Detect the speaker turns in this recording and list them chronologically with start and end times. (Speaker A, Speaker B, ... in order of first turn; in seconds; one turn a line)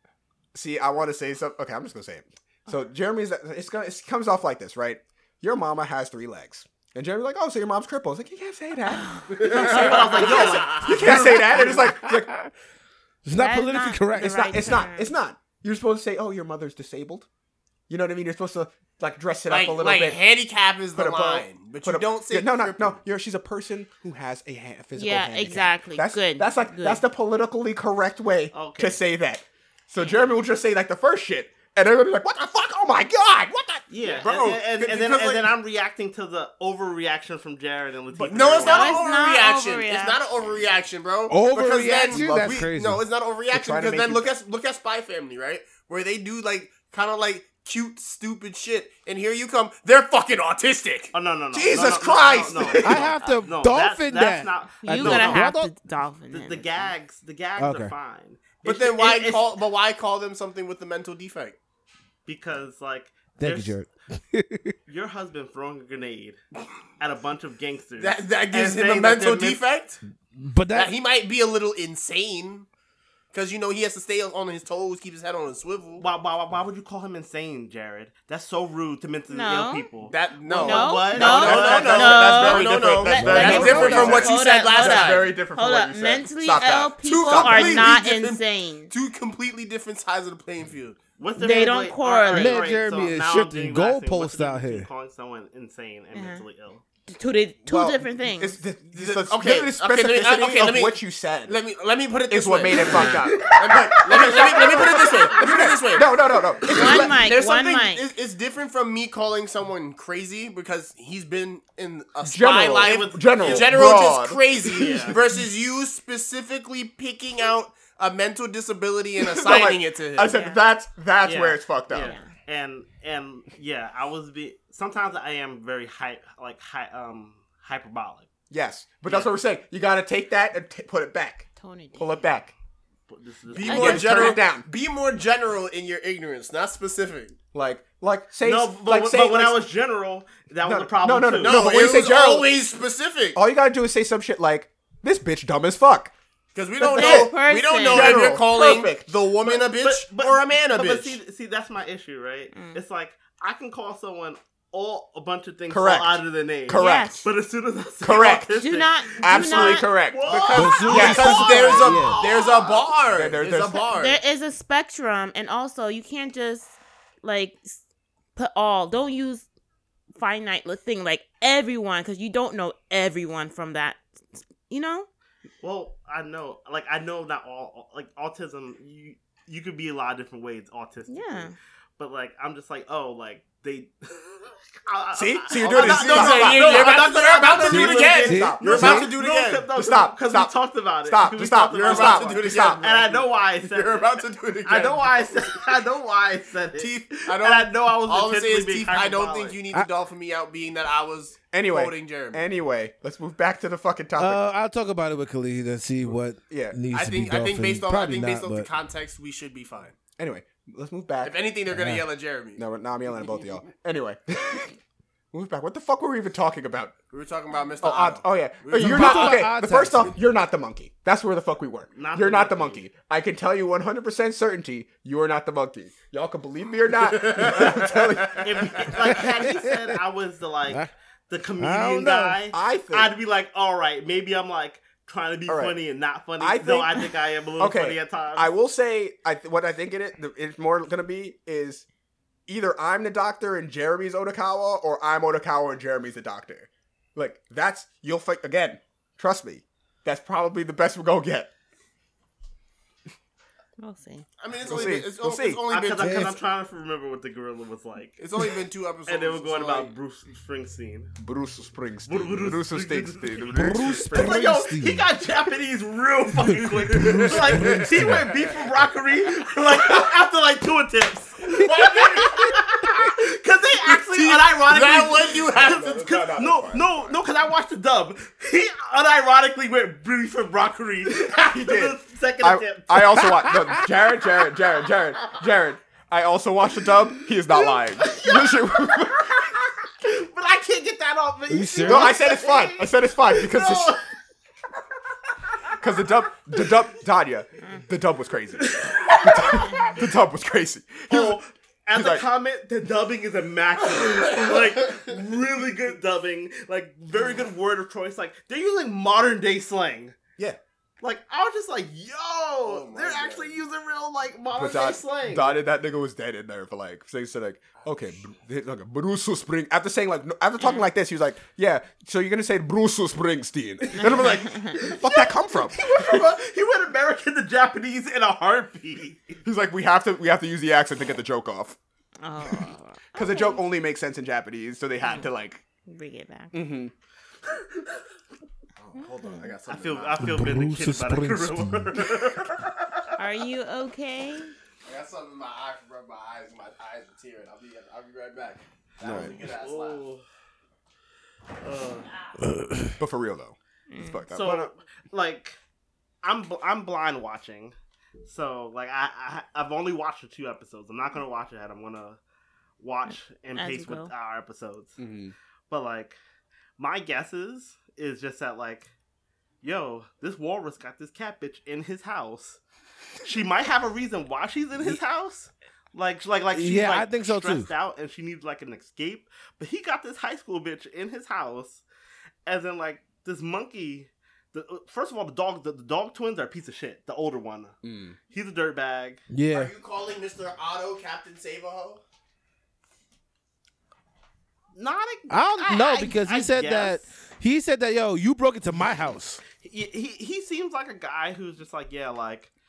Speaker A: 0.5-12.3
Speaker B: 8.9-9.3
Speaker C: 9.3-11.6
Speaker D: 9.4-11.3
Speaker E: 11.0-12.5
Speaker E: 13.2-14.7
Speaker B: 13.3-15.1
Speaker A: 14.2-17.3
Speaker A: 17.9-20.2
Speaker D: 19.5-23.0
Speaker A: 20.9-34.7
Speaker B: 24.9-27.0
Speaker C: 28.5-29.0
Speaker C: 33.9-39.0
Speaker D: 34.2-35.5
Speaker D: 38.2-51.1
Speaker B: 38.6-40.2
Speaker E: 41.3-43.0
Speaker A: 42.1-42.6
Speaker A: 43.5-44.3
Speaker C: 51.1-55.4
Speaker A: 51.5-53.1
Speaker E: 52.8-55.7
Speaker B: 54.8-56.9
Speaker C: 56.3-59.5
Speaker E: 57.6-57.9
Speaker D: 58.6-61.6
Speaker C: 62.2-63.8
Speaker E: 63.4-64.7
Speaker C: 64.9-66.4
Speaker C: 67.0-69.6
Speaker D: 68.0-70.0
Speaker E: 70.3-70.9
Speaker D: 70.7-72.7
Speaker D: 73.3-76.0
Speaker C: 76.0-82.6
Speaker B: 79.3-79.9
Speaker D: 80.0-85.3
Speaker B: 80.5-88.9
Speaker A: 81.1-87.9
Speaker E: 83.2-83.8
Speaker C: 83.4-84.2
Speaker D: 87.0-91.0
Speaker C: 91.2-96.8
Speaker B: 91.4-92.7
Speaker E: 92.2-94.9
Speaker B: 96.1-96.4
Speaker B: 97.1-98.6
Speaker A: 97.7-101.6
Speaker D: 98.9-120.3
Speaker A: 102.3-107.2
Speaker C: 104.1-105.2
Speaker B: 106.7-108.0
Speaker A: 112.2-115.4
Speaker C: 112.8-113.9
Speaker C: 114.7-115.2
Speaker A: 119.2-122.1
Speaker B: 120.3-120.6
Speaker C: 121.2-128.3
Speaker B: 121.9-122.3
Speaker A: 128.5-132.5
Speaker C: 129.1-129.3
Speaker B: 131.6-132.2
Speaker C: 133.1-134.4
Speaker D: 133.5-137.3
Speaker A: 133.6-134.7
Speaker B: 133.6-134.1
Speaker A: 137.5-139.6
Speaker C: 138.4-141.7
Speaker A: 140.6-142.5
Speaker D: 141.4-143.4
Speaker A: 143.3-146.1
Speaker D: 146.5-151.2
Speaker B: 146.8-148.4
Speaker A: 146.8-149.1
Speaker C: 149.4-162.9
Speaker B: 152.5-152.8
Speaker A: 155.7-157.2
Speaker B: 156.7-157.2
Speaker A: 158.0-158.6
Speaker B: 158.5-159.9
Speaker A: 159.2-161.8
Speaker D: 160.3-164.2
Speaker E: 160.5-162.2
Speaker A: 163.1-163.8
Speaker B: 163.9-167.8
Speaker B: 168.3-169.4
Speaker B: 170.1-175.1
Speaker C: 175.6-199.6
Speaker B: 181.1-181.5
Speaker A: 185.1-189.1
Speaker D: 185.6-189.7
Speaker E: 187.7-189.1
Speaker A: 189.7-192.9
Speaker D: 191.7-195.6
Speaker D: 196.8-202.4
Speaker A: 201.5-204.4
Speaker E: 204.2-208.7
Speaker A: 206.5-206.8
Speaker D: 206.9-209.9
Speaker A: 210.2-211.4
Speaker D: 211.2-212.6
Speaker E: 211.7-212.1
Speaker A: 212.6-214.8
Speaker A: 215.3-216.9
Speaker D: 217.1-219.5
Speaker A: 217.8-229.2
Speaker E: 218.8-220.2
Speaker C: 221.9-222.8
Speaker D: 227.0-229.0
Speaker C: 228.4-238.5
Speaker E: 229.2-229.9
Speaker E: 231.6-232.4
Speaker A: 232.5-233.1
Speaker A: 235.5-235.8
Speaker A: 236.4-237.1
Speaker A: 237.6-241.8
Speaker A: 242.5-251.5
Speaker B: 253.8-254.2
Speaker D: 254.4-256.4
Speaker A: 254.6-255.6
Speaker C: 255.7-261.1
Speaker E: 256.0-256.3
Speaker D: 258.2-259.9
Speaker A: 261.2-264.3
Speaker C: 262.1-283.3
Speaker E: 263.5-265.0
Speaker E: 266.9-268.3
Speaker D: 267.0-268.5
Speaker D: 271.6-272.3
Speaker D: 273.9-275.9
Speaker A: 275.5-277.2
Speaker A: 281.1-289.3
Speaker E: 283.2-283.9
Speaker C: 287.5-294.1
Speaker E: 291.5-292.2
Speaker A: 291.8-293.9
Speaker A: 295.8-301.4
Speaker C: 298.6-299.9
Speaker C: 301.1-310.2
Speaker A: 301.9-302.2
Speaker C: 311.0-315.6
Speaker D: 312.6-313.5
Speaker A: 314.5-326.3
Speaker C: 323.8-329.4
Speaker B: 324.1-324.7
Speaker A: 329.4-331.8
Speaker B: 332.2-333.6
Speaker A: 333.1-335.6
Speaker B: 335.0-335.3
Speaker B: 335.9-336.6
Speaker A: 336.5-336.9
Speaker D: 338.8-340.3
Speaker B: 339.0-339.5
Speaker C: 339.6-343.1
Speaker E: 340.2-341.9
Speaker B: 343.2-344.5
Speaker D: 344.8-350.0
Speaker A: 349.0-349.4
Speaker C: 349.0-350.2
Speaker C: 351.6-352.1
Speaker E: 352.4-352.9
Speaker A: 353.0-354.7
Speaker B: 353.9-354.2
Speaker C: 354.3-355.6
Speaker C: 356.2-362.2
Speaker C: 362.8-365.0
Speaker B: 363.1-364.1
Speaker A: 365.0-365.3
Speaker C: 365.7-366.2
Speaker C: 366.8-368.9
Speaker C: 369.6-372.6
Speaker C: 373.2-381.8
Speaker E: 376.5-377.7
Speaker C: 382.4-387.7
Speaker A: 387.8-388.2
Speaker C: 388.3-389.2
Speaker E: 389.3-389.7
Speaker D: 389.5-392.0
Speaker C: 394.7-397.1
Speaker E: 395.3-399.4
Speaker C: 399.5-402.5